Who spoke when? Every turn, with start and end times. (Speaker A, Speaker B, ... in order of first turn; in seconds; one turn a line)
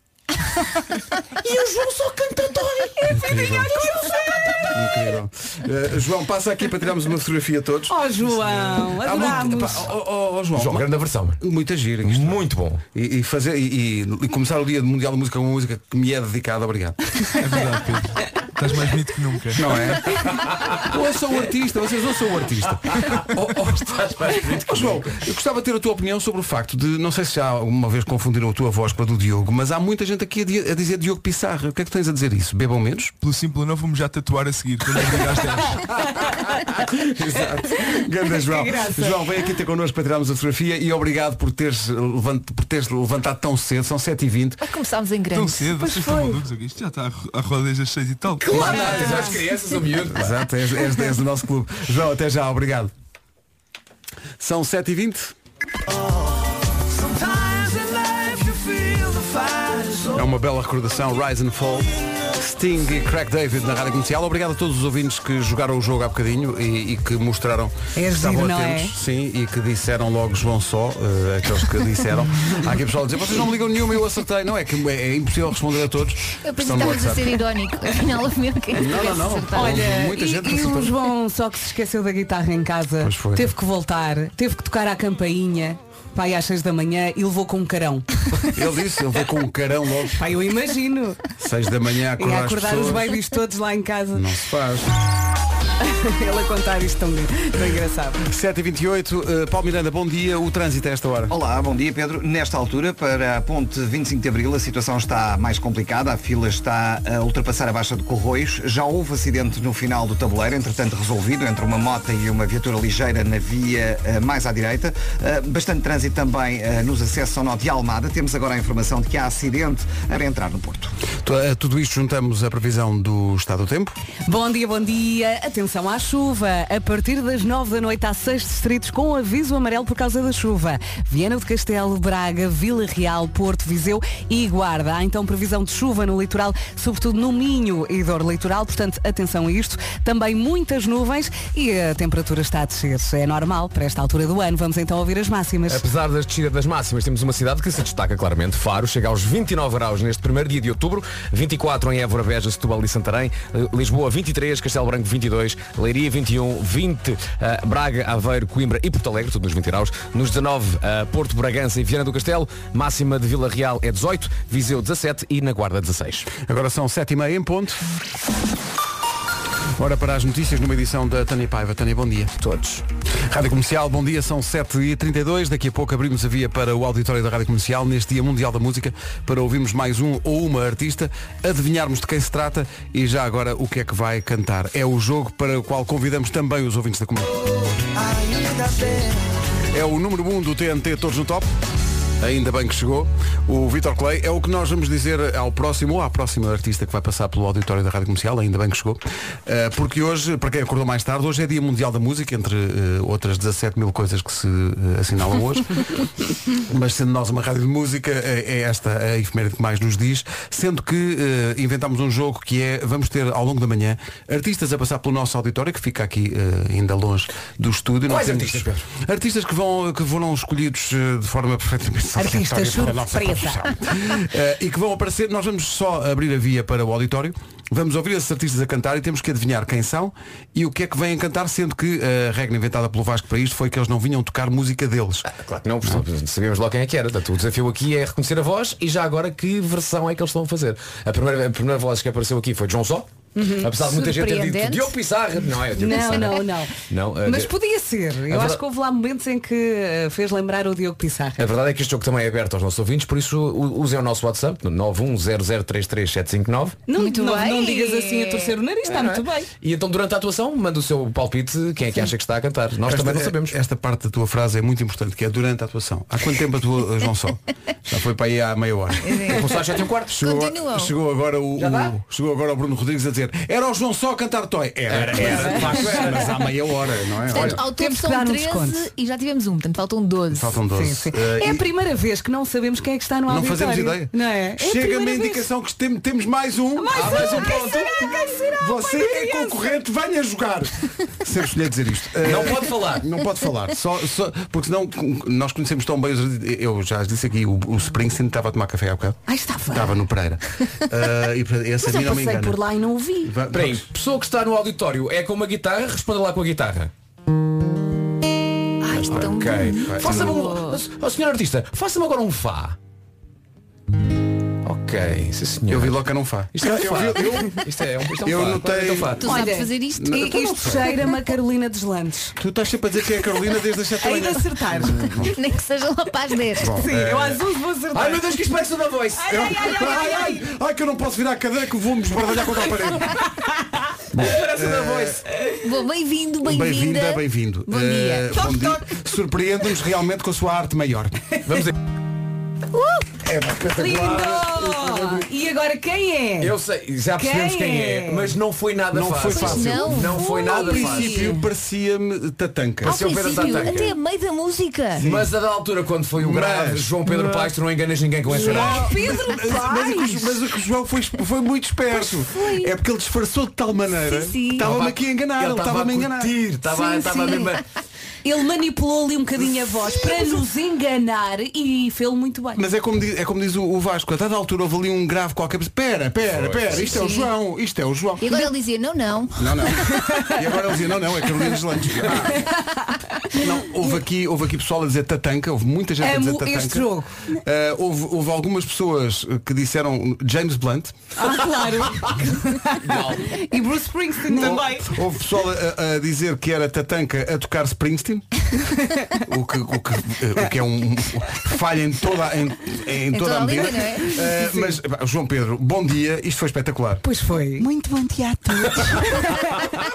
Speaker A: 1.4-2.7
Speaker B: 3.0-3.9
Speaker C: 3.1-3.7
Speaker A: 3.3-4.7
Speaker C: 4.7-8.0
Speaker A: 7.9-9.9
Speaker C: 8.5-10.9
Speaker B: 10.5-11.4
Speaker C: 11.4-12.4
Speaker B: 12.0-12.8
Speaker C: 12.9-17.0
Speaker D: 17.4-19.9
Speaker C: 19.6-20.2
Speaker B: 20.2-20.7
Speaker C: 20.7-23.6
Speaker B: 22.9-25.1
Speaker C: 24.6-33.1
Speaker D: 33.2-36.0
Speaker C: 36.6-44.6
Speaker A: 38.3-39.2
Speaker E: 44.6-45.7
Speaker D: 45.3-49.1
Speaker A: 45.8-46.4
Speaker B: 48.4-50.3
Speaker A: 48.5-49.4
Speaker C: 48.6-49.2
Speaker C: 50.1-52.9
Speaker C: 54.4-55.3
Speaker C: 60.1-77.4
Speaker A: 68.0-68.9
Speaker E: 76.4-79.8
Speaker C: 78.7-80.9
Speaker A: 79.5-88.5
Speaker C: 83.0-83.5
Speaker C: 88.5-90.2
Speaker A: 90.2-91.2
Speaker C: 91.4-93.2
Speaker A: 92.2-94.2
Speaker C: 94.1-94.9
Speaker A: 95.8-98.2
Speaker C: 98.2-101.3
Speaker F: 101.3-120.9
Speaker C: 121.2-123.9
Speaker A: 124.2-145.8
Speaker B: 145.7-166.3
Speaker C: 166.4-167.8
Speaker C: 169.8-172.4
Speaker B: 172.4-172.8
Speaker C: 173.2-187.5
Speaker C: 189.7-191.5
Speaker C: 192.2-206.1
Speaker C: 206.7-235.3
Speaker B: 218.1-218.8
Speaker A: 222.1-223.7
Speaker B: 235.2-243.1
Speaker A: 243.3-243.7
Speaker B: 243.6-247.5
Speaker E: 243.8-244.9
Speaker A: 245.8-251.4
Speaker E: 245.9-246.3
Speaker B: 248.3-248.6
Speaker B: 251.4-256.8
Speaker A: 256.9-259.5
Speaker E: 256.9-258.6
Speaker B: 258.8-263.6
Speaker C: 262.9-269.4
Speaker E: 269.0-269.4
Speaker B: 269.3-270.2
Speaker C: 270.1-277.6
Speaker E: 270.1-270.9
Speaker B: 271.6-271.9
Speaker B: 274.9-276.4
Speaker A: 275.6-276.0
Speaker E: 277.3-280.5
Speaker A: 277.6-278.9
Speaker C: 280.3-281.6
Speaker A: 280.7-285.4
Speaker C: 283.3-287.7
Speaker A: 286.8-289.8
Speaker B: 286.9-288.0
Speaker C: 288.6-302.6
Speaker B: 292.2-293.1
Speaker A: 299.3-300.0
Speaker A: 301.8-303.3
Speaker C: 303.2-303.9
Speaker B: 303.5-306.9
Speaker E: 308.8-310.8
Speaker B: 308.9-312.8
Speaker C: 308.9-310.5
Speaker B: 314.6-316.0
Speaker C: 315.7-317.5
Speaker B: 316.5-319.2
Speaker C: 318.2-319.2
Speaker E: 319.2-320.7
Speaker A: 319.2-322.3
Speaker C: 319.9-320.9
Speaker C: 322.4-325.3
Speaker A: 324.0-325.1
Speaker E: 325.2-326.9
Speaker C: 326.6-327.4
Speaker A: 326.7-328.2
Speaker B: 327.9-329.8
Speaker A: 329.2-330.3
Speaker C: 329.3-333.2
Speaker C: 334.1-335.2
Speaker B: 334.2-335.2
Speaker E: 335.4-338.8
Speaker C: 336.4-341.2
Speaker B: 341.4-341.7
Speaker E: 342.7-343.1
Speaker C: 343.2-345.3
Speaker A: 343.6-346.5
Speaker B: 346.4-351.3
Speaker A: 347.2-348.3
Speaker C: 348.9-353.0
Speaker E: 349.3-351.2
Speaker A: 350.3-351.4
Speaker E: 352.8-355.1
Speaker B: 352.8-353.9
Speaker C: 355.0-355.3
Speaker B: 355.0-358.9
Speaker C: 356.1-357.5
Speaker C: 358.3-366.3
Speaker A: 358.4-360.3
Speaker E: 362.2-362.7
Speaker E: 364.0-364.7
Speaker B: 364.6-367.6
Speaker E: 366.7-367.5
Speaker A: 368.2-372.6
Speaker C: 372.5-378.3
Speaker B: 376.3-377.0
Speaker E: 376.7-377.3
Speaker E: 378.2-380.0
Speaker C: 379.4-382.4
Speaker A: 379.8-380.3
Speaker A: 382.3-383.4
Speaker C: 383.3-390.9
Speaker A: 386.0-387.3
Speaker A: 391.1-395.0
Speaker B: 392.8-393.4
Speaker C: 394.3-398.2
Speaker A: 398.7-399.1
Speaker C: 399.2-407.0
Speaker E: 403.1-404.2
Speaker A: 403.9-404.8
Speaker A: 407.0-409.7